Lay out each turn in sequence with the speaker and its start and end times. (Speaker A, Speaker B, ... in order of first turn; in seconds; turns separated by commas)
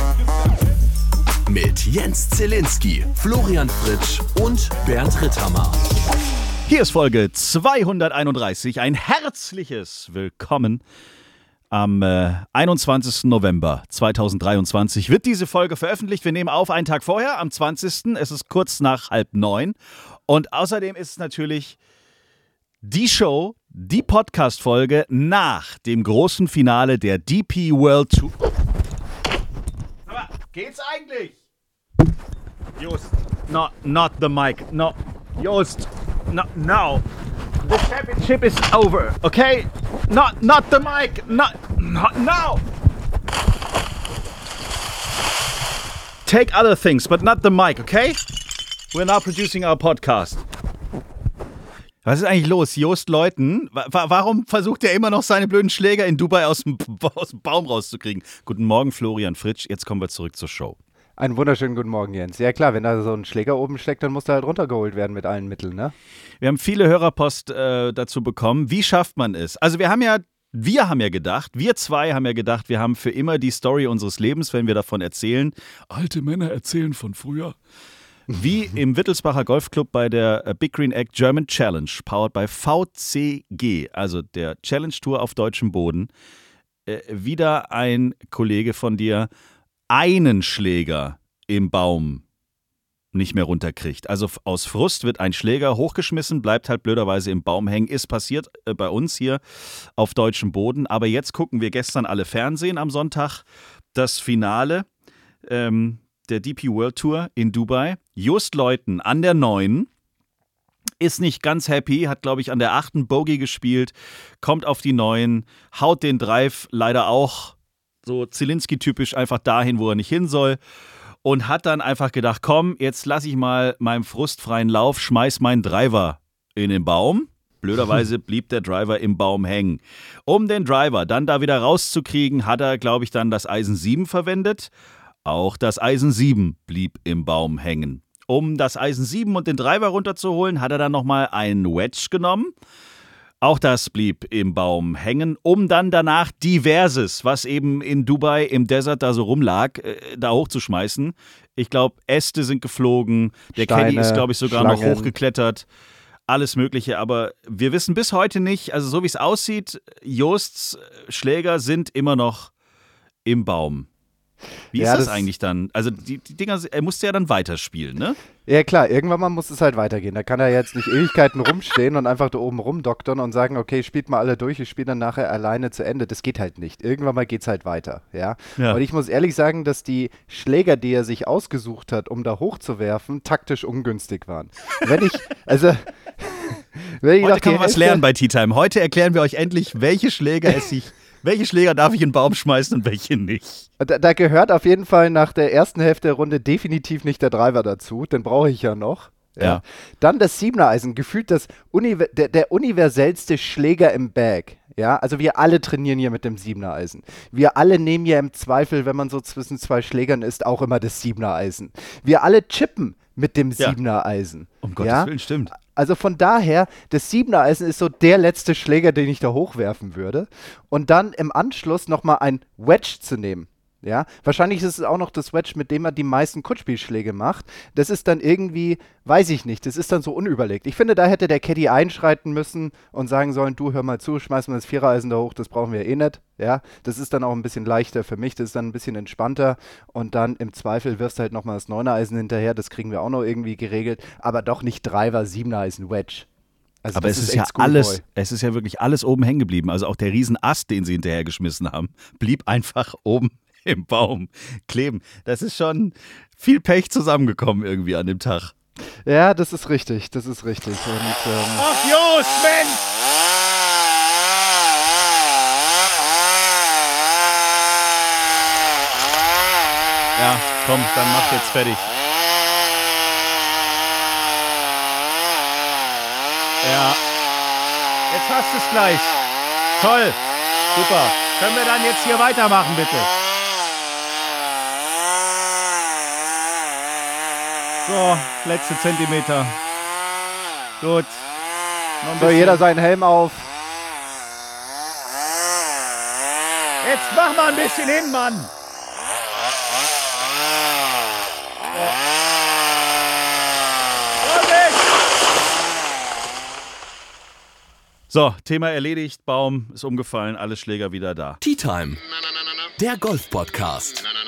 Speaker A: 1.4-5.8, Speaker B: 6.7-10.8, Speaker B: 11.7-19.8, Speaker B: 20.3-21.8, Speaker B: 22.8-28.4, Speaker B: 30.1-31.4, Speaker B: 32.8-37.0, Speaker B: 37.6-42.6, Speaker B: 46.2-48.2, Speaker B: 48.9-50.4, Speaker B: 52.0-60.8, Speaker C: 61.2-65.9, Speaker B: 66.4-77.6, Speaker B: 78.3-86.1, Speaker B: 86.8-89.3, Speaker B: 89.9-92.2, Speaker B: 93.1-104.9, Speaker B: 105.4-109.9, Speaker B: 111.0-120.6, Speaker B: 121.2-134.7, Speaker B: 135.2-142.5, Speaker B: 143.4-155.7, Speaker C: 153.5-155.1, Speaker B: 156.3-162.5, Speaker B: 163.2-163.9, Speaker B: 164.7-168.2, Speaker C: 164.7-165.3, Speaker C: 168.4-188.0, Speaker B: 187.2-193.7, Speaker C: 193.8-246.2, Speaker B: 214.6-215.5, Speaker C: 246.8-248.0, Speaker B: 246.9-258.5, Speaker C: 259.1-261.6, Speaker B: 261.6-262.8, Speaker B: 270.1-271.9, Speaker B: 276.6-277.0, Speaker B: 278.1-279.2, Speaker B: 279.8-280.2, Speaker B: 280.7-283.1, Speaker B: 287.9-289.6, Speaker B: 290.8-291.3, Speaker B: 292.0-292.6, Speaker C: 292.2-293.5, Speaker B: 296.8-298.5, Speaker B: 304.2-304.8, Speaker B: 308.1-311.4, Speaker A: 311.4-312.0, Speaker A: 312.8-314.0